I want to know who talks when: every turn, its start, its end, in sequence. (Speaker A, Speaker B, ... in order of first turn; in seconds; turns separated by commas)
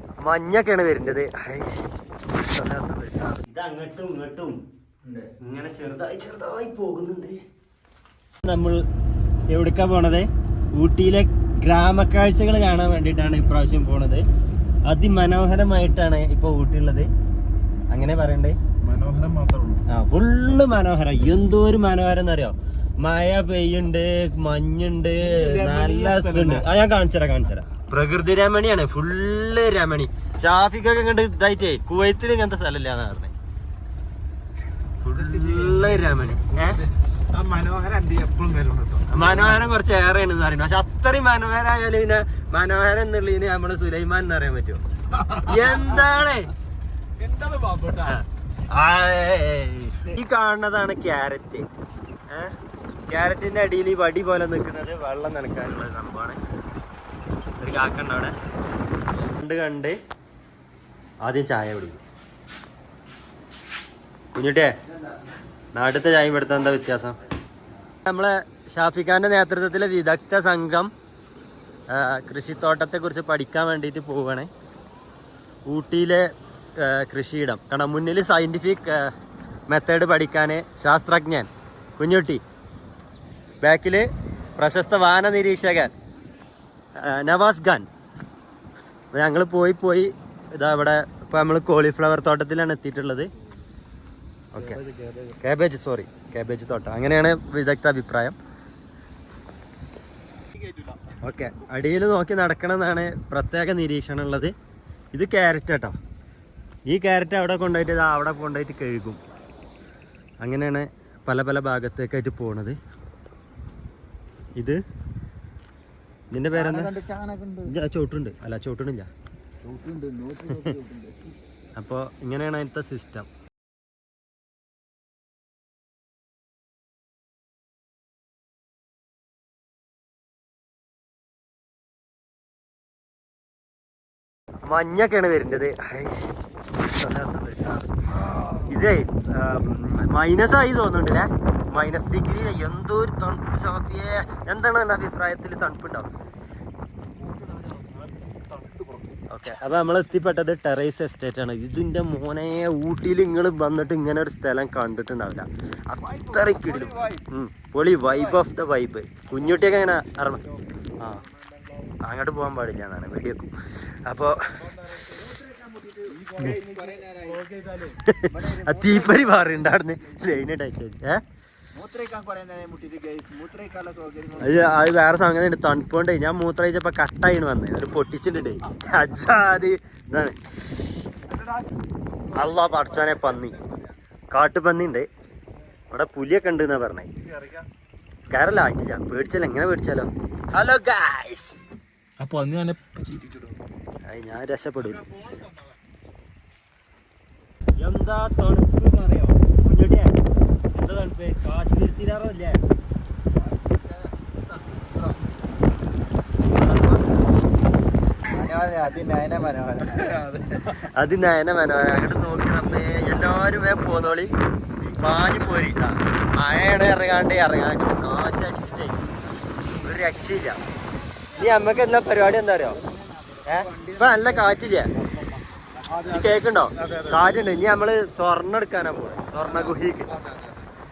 Speaker A: 0.2-4.6, Speaker A: 5.3-7.4, Speaker A: 8.4-8.8, Speaker A: 9.5-14.3, Speaker A: 14.9-17.1, Speaker A: 17.9-18.6, Speaker B: 18.8-19.8, Speaker A: 19.9-33.3, Speaker B: 25.2-26.6, Speaker A: 35.0-36.9, Speaker B: 35.2-39.6, Speaker A: 39.1-46.5, Speaker B: 47.2-48.2, Speaker A: 48.0-51.7, Speaker A: 52.3-52.6, Speaker A: 53.1-56.4, Speaker A: 57.6-58.3, Speaker A: 59.2-60.0, Speaker A: 61.2-62.0, Speaker A: 64.3-64.8, Speaker A: 65.8-67.2, Speaker A: 68.1-70.9, Speaker A: 71.9-74.5, Speaker A: 75.7-79.1, Speaker A: 79.7-82.4, Speaker A: 83.6-85.9, Speaker A: 87.0-87.9, Speaker A: 89.1-93.3, Speaker A: 94.5-94.9, Speaker B: 94.7-95.4, Speaker A: 95.4-98.4, Speaker A: 101.1-104.5, Speaker A: 105.1-106.0, Speaker A: 106.9-109.2, Speaker A: 110.4-112.8, Speaker A: 114.6-114.8, Speaker A: 116.3-117.0, Speaker C: 116.5-117.7, Speaker A: 117.7-119.1, Speaker C: 119.6-121.3, Speaker A: 121.8-123.3, Speaker A: 134.6-146.1, Speaker B: 147.2-149.2, Speaker A: 149.3-161.3, Speaker B: 156.4-157.1, Speaker A: 162.0-164.9, Speaker C: 165.1-170.3, Speaker B: 166.2-167.9, Speaker A: 168.0-171.2, Speaker C: 171.7-174.8, Speaker A: 174.4-180.4, Speaker A: 182.3-183.6, Speaker A: 184.3-185.1, Speaker A: 185.9-187.1, Speaker B: 187.3-187.7, Speaker A: 188.3-191.6, Speaker B: 192.2-193.6, Speaker A: 194.1-195.1, Speaker A: 197.8-200.2, Speaker A: 200.7-202.6, Speaker A: 206.4-207.1, Speaker C: 208.3-210.4, Speaker B: 210.0-210.4, Speaker A: 210.6-219.0, Speaker A: 219.6-220.6, Speaker A: 221.3-222.8, Speaker C: 222.8-224.6, Speaker A: 223.4-224.9, Speaker A: 226.0-230.2, Speaker B: 226.8-227.2, Speaker B: 229.7-230.6